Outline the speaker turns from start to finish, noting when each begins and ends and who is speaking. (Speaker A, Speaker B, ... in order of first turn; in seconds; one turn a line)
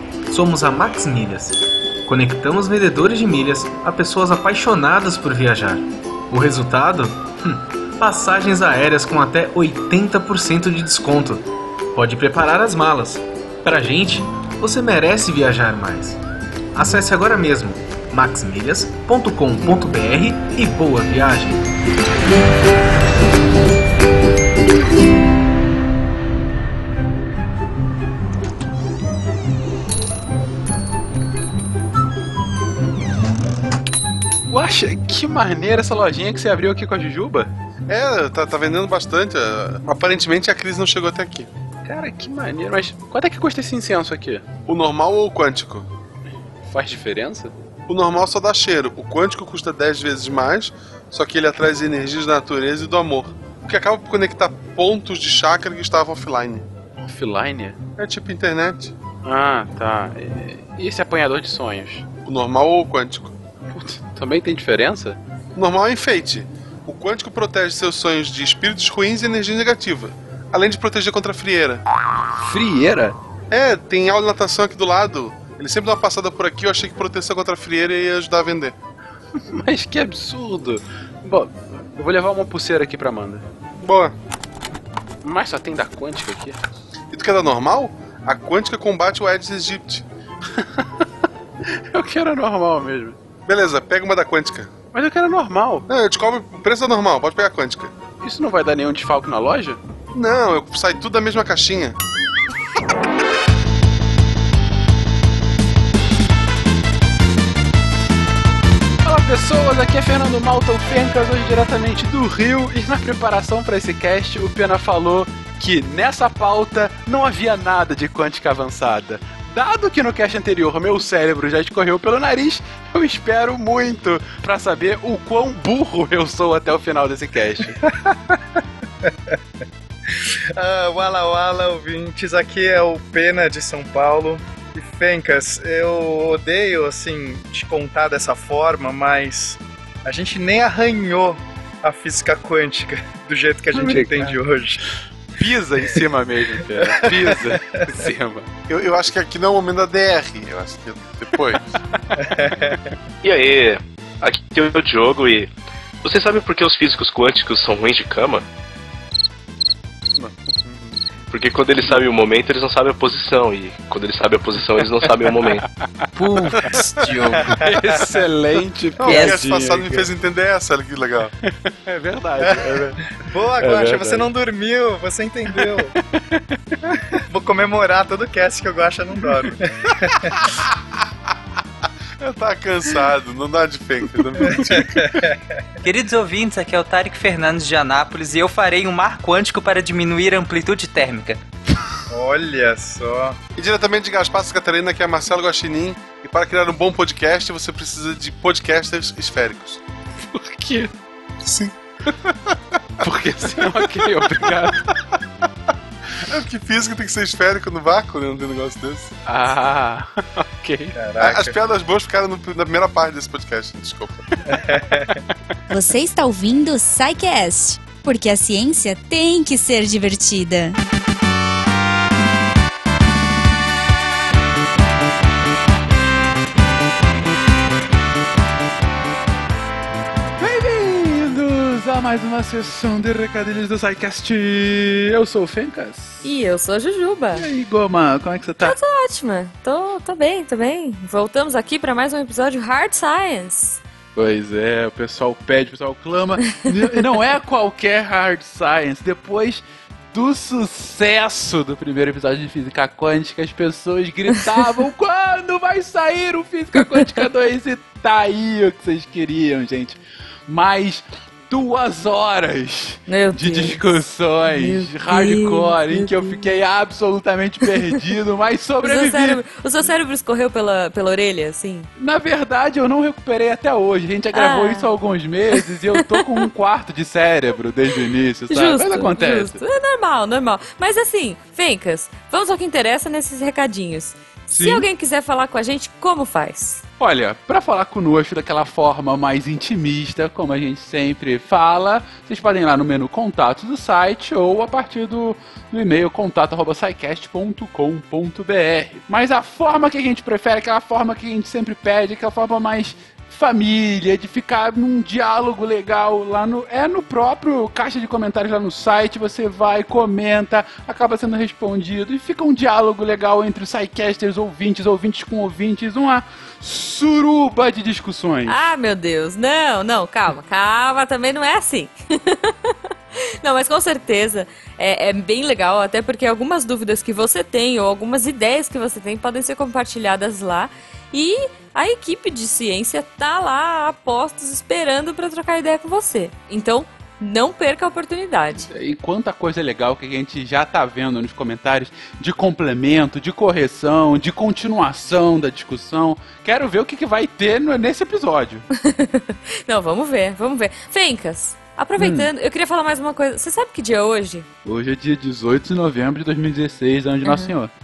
Speaker A: 0.3-16.2
Speaker A: 16.7-21.6
Speaker B: 34.5-37.5
Speaker C: 37.9-41.5
Speaker B: 41.8-44.5
Speaker C: 44.7-45.9
Speaker B: 46.6-47.5
Speaker C: 47.9-56.6
Speaker B: 57.0-57.8
Speaker C: 58.0-58.9
Speaker B: 59.2-62.0
Speaker C: 62.2-63.4
Speaker B: 63.7-65.2
Speaker C: 65.5-71.8
Speaker B: 72.4-73.2
Speaker C: 73.5-78.8
Speaker B: 79.5-83.4
Speaker C: 83.8-84.1
Speaker B: 85.2-86.6
Speaker C: 87.1-90.0
Speaker B: 90.5-91.0
Speaker B: 91.7-93.2
Speaker C: 93.5-94.7
Speaker B: 94.9-95.8
Speaker C: 95.9-97.9
Speaker B: 98.2-99.8
Speaker C: 100.1-102.0
Speaker B: 109.0-127.9
Speaker D: 127.8-128.4
Speaker D: 129.0-129.3
Speaker D: 130.1-144.8
Speaker B: 143.7-144.3
Speaker B: 145.3-148.5
Speaker D: 146.8-147.9
Speaker C: 148.7-151.6
Speaker D: 152.2-152.8
Speaker E: 153.2-155.5
Speaker E: 156.0-158.4
Speaker E: 161.3-165.6
Speaker B: 167.0-170.1
Speaker D: 167.3-168.2
Speaker D: 169.0-169.3
Speaker C: 169.0-171.3
Speaker B: 171.5-174.3
Speaker D: 172.4-176.0
Speaker B: 175.5-176.6
Speaker D: 176.8-180.4
Speaker B: 180.4-180.7
Speaker C: 182.2-185.2
Speaker D: 184.5-185.4
Speaker F: 185.8-191.4
Speaker D: 192.1-193.4
Speaker C: 193.6-199.8
Speaker B: 200.2-200.9
Speaker C: 201.5-202.6
Speaker B: 203.0-204.8
Speaker C: 203.6-204.5
Speaker C: 206.2-209.1
Speaker B: 209.2-210.9
Speaker D: 210.9-211.5
Speaker C: 211.2-214.2
Speaker D: 214.5-215.2
Speaker G: 215.7-220.8
Speaker B: 230.4-236.3
Speaker H: 236.2-237.4
Speaker B: 237.3-238.8
Speaker H: 238.6-243.8
Speaker B: 244.1-269.4
Speaker H: 263.1-266.3
Speaker H: 268.8-271.9
Speaker B: 272.0-279.6
Speaker H: 274.3-274.9
Speaker H: 278.5-286.8
Speaker B: 284.5-284.9
Speaker B: 287.0-318.6
Speaker H: 318.5-338.7
Speaker B: 338.7-348.6
Speaker H: 348.8-354.5
Speaker B: 352.0-352.3
Speaker B: 354.6-357.7
Speaker H: 357.2-357.5